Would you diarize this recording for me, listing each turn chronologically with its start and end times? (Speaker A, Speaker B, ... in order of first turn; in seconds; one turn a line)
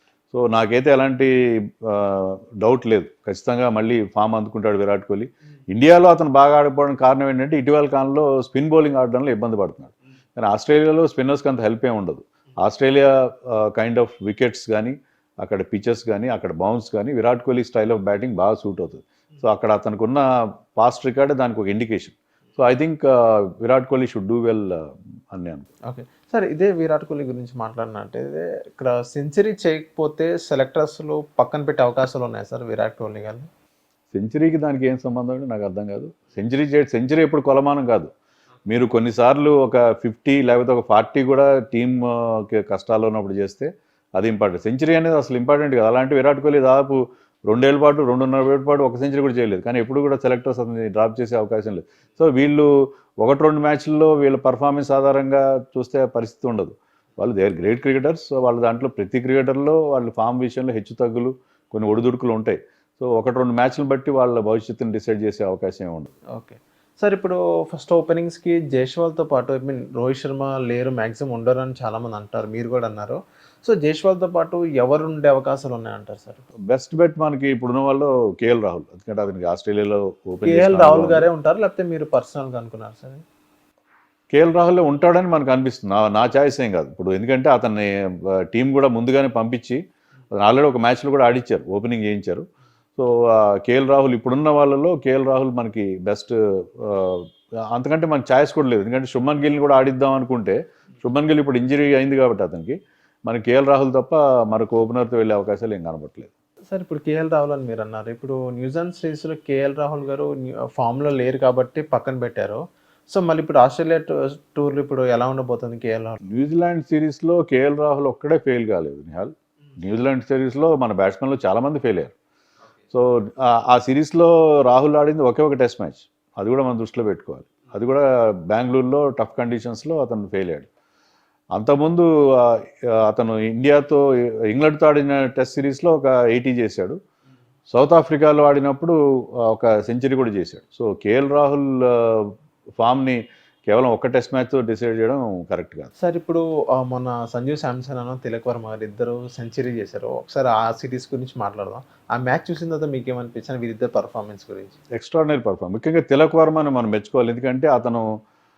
Speaker A: 0.3-25.7
Speaker B: 25.9-33.5
Speaker A: 34.1-38.1
Speaker A: 38.7-66.1
Speaker B: 66.3-76.4
Speaker A: 76.7-81.3
Speaker B: 80.4-83.2
Speaker A: 84.3-89.8
Speaker A: 90.3-92.5
Speaker A: 93.0-106.3
Speaker B: 106.7-116.2
Speaker A: 116.2-122.1
Speaker A: 122.9-130.7
Speaker A: 131.5-137.0
Speaker A: 137.7-145.9
Speaker B: 146.0-154.8
Speaker A: 154.9-158.1